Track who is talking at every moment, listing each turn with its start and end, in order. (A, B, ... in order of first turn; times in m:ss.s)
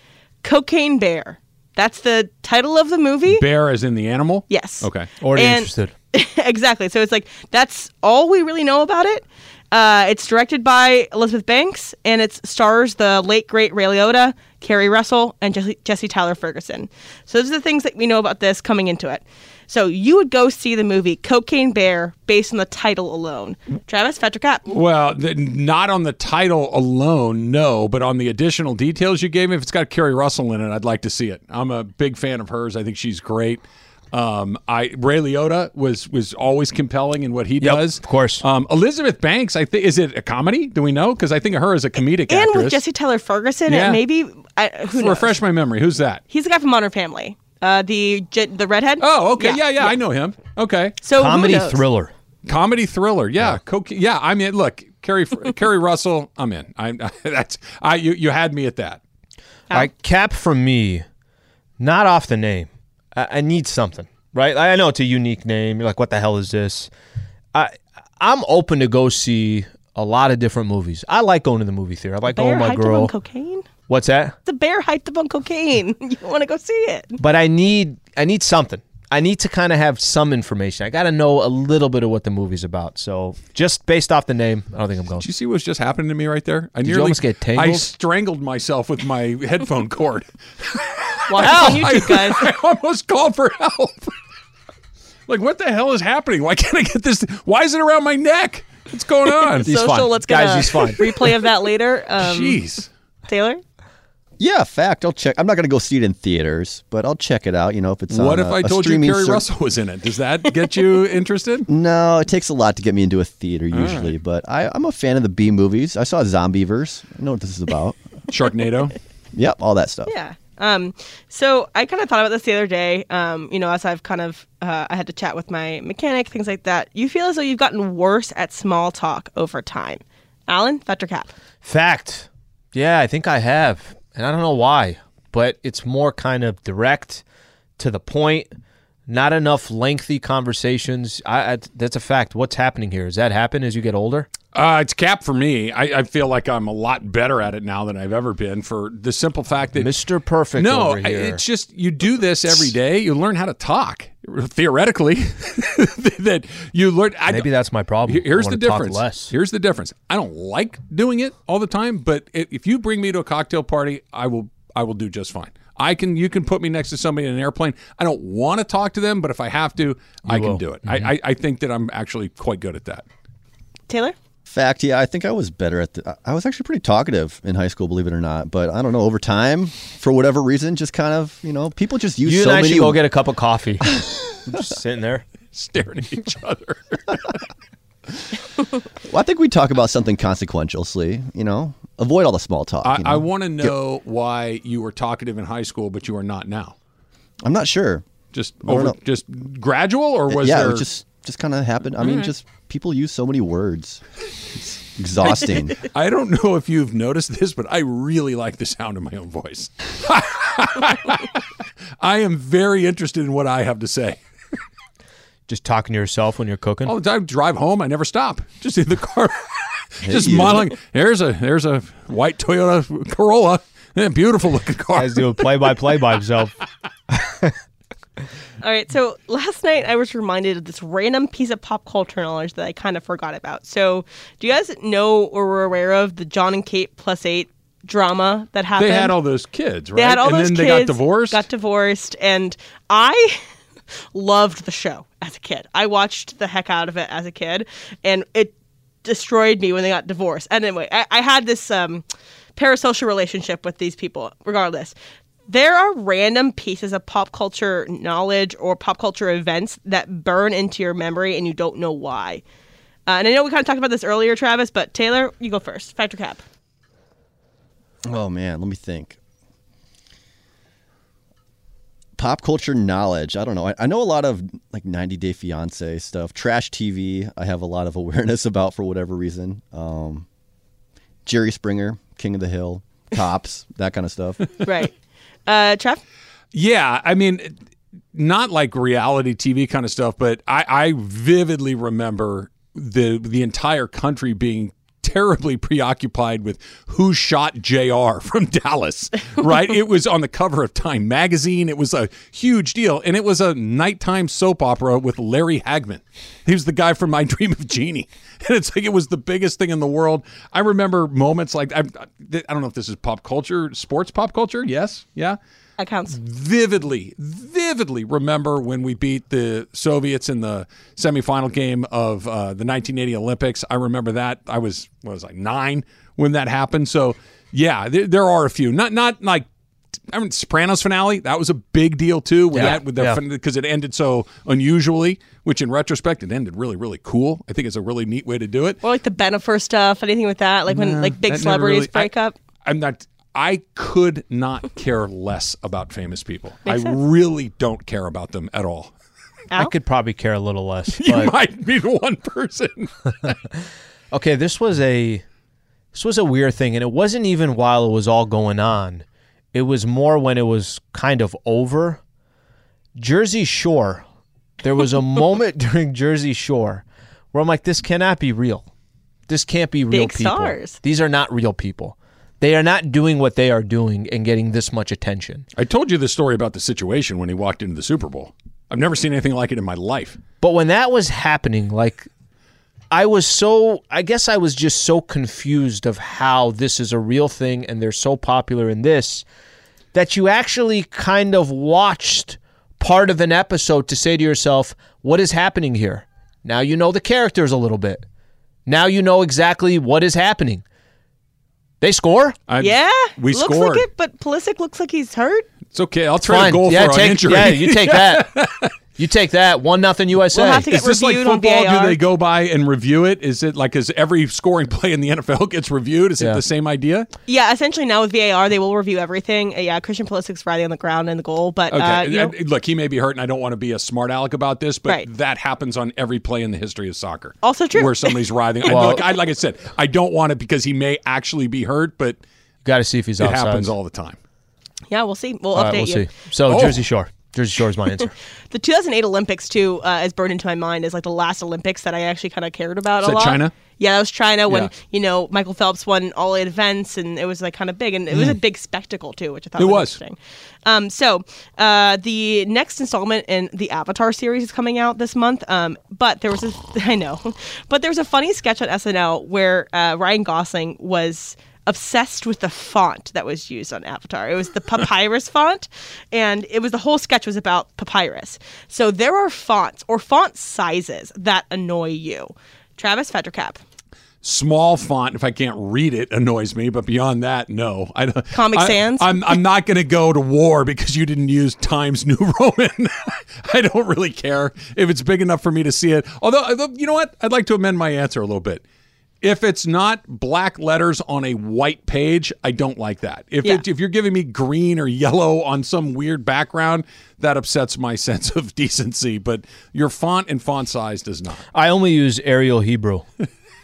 0:00.4-0:03.4 A
0:03.3-0:05.1 B
0:04.5-0:24.6 A
0:05.2-0:05.9 C
0:24.7-0:42.8 B
0:37.6-0:38.4 C
0:42.3-0:45.3 A
0:43.7-0:44.0 B
0:44.9-0:46.2 B
0:46.3-0:49.9 A
0:49.0-0:51.0 B
0:51.0-0:51.8 A
0:51.1-0:52.1 C
0:52.4-0:59.0 B
0:59.7-1:01.0 C
1:01.8-1:06.9 C
1:07.5-1:13.1 C
1:12.3-1:13.7 A
1:13.9-1:14.4 C
1:14.4-1:17.2 A
1:17.2-1:25.2 C
1:25.2-1:34.1 B
1:26.8-1:27.9 C
1:31.3-1:32.5 A
1:31.4-1:31.9 C
1:35.3-1:39.7 B
1:39.5-1:42.6 A
1:39.6-1:41.0 C
1:42.2-1:42.9 B
1:43.3-1:43.6 A
1:44.4-1:49.4 D
1:48.1-1:51.7 B
1:51.7-1:58.0 D
1:53.7-1:54.1 B
1:58.3-1:59.0 B
1:59.3-2:00.1 D
2:00.1-2:11.3 A
2:11.6-2:17.2 C
2:17.8-2:18.5 C
2:19.1-2:24.3 C
2:24.5-2:29.9 B
2:29.8-2:31.4 C
2:30.6-2:37.5 B
2:37.3-2:39.3 C
2:38.0-2:53.0 B
2:50.2-2:51.1 C
2:53.9-2:54.1 A
2:54.5-3:03.0 D
3:02.2-3:05.2 C
3:05.5-3:07.4 B
3:09.1-3:13.7 D
3:12.8-3:16.7 B
3:17.4-3:18.0 D
3:18.3-3:20.8 B
3:18.6-3:19.0 D
3:20.3-3:24.0 D
3:24.6-3:25.9 D
3:25.8-3:31.5 B
3:32.0-3:34.2 B
3:35.5-3:36.9 C
3:36.8-3:45.5 B
3:40.0-3:40.7 D
3:44.9-3:46.6 C
3:47.1-3:47.5 C
3:48.6-3:59.2 A
3:58.8-4:01.4 B
3:59.9-4:03.5 A
4:04.1-4:12.0 A
4:12.6-4:15.0 A
4:15.5-4:22.4 A
4:23.1-4:26.4 A
4:28.0-4:29.2 D
4:32.2-4:40.2 D
4:41.2-4:44.5 D
4:44.6-4:44.9 A
4:45.5-4:46.0 A
4:46.5-4:47.5 B
4:48.1-5:15.4 B
5:15.8-5:16.2 A
5:16.1-5:29.4 B
5:30.1-5:38.8 B
5:32.5-5:33.2 C
5:38.8-5:42.4 A
5:40.7-5:42.1 B
5:42.6-5:48.9 B
5:46.7-5:46.9 A
5:49.6-5:51.3 C
5:51.0-5:53.4 B
5:54.1-5:55.2 C
5:55.9-6:02.0 C
6:03.0-6:04.0 C
6:04.6-6:08.7 C
6:09.3-6:15.5 C
6:09.9-6:10.8 A
6:15.6-6:20.2 B
6:20.4-6:22.1 C
6:22.9-6:29.2 C
6:29.9-6:38.0 C
6:38.6-6:40.6 C
6:41.8-6:42.4 C
6:42.5-6:43.9 B
6:42.6-6:45.5 A
6:45.7-6:48.7 B
6:46.2-6:48.3 C
6:49.0-6:50.6 C
6:50.3-6:52.0 A
6:50.6-6:57.1 B
6:57.3-7:02.3 A
7:01.7-7:12.2 B
7:07.4-7:08.9 A
7:08.6-7:09.0 C
7:12.6-7:13.7 C
7:13.2-7:14.2 B
7:14.9-7:16.1 A
7:15.5-7:18.1 C
7:16.5-7:16.8 B
7:18.5-7:53.6 A
7:23.0-7:23.5 B
7:29.6-7:30.0 B
7:54.2-8:08.6 B
7:58.3-7:59.2 A
8:09.2-8:21.4 B
8:21.5-8:23.0 C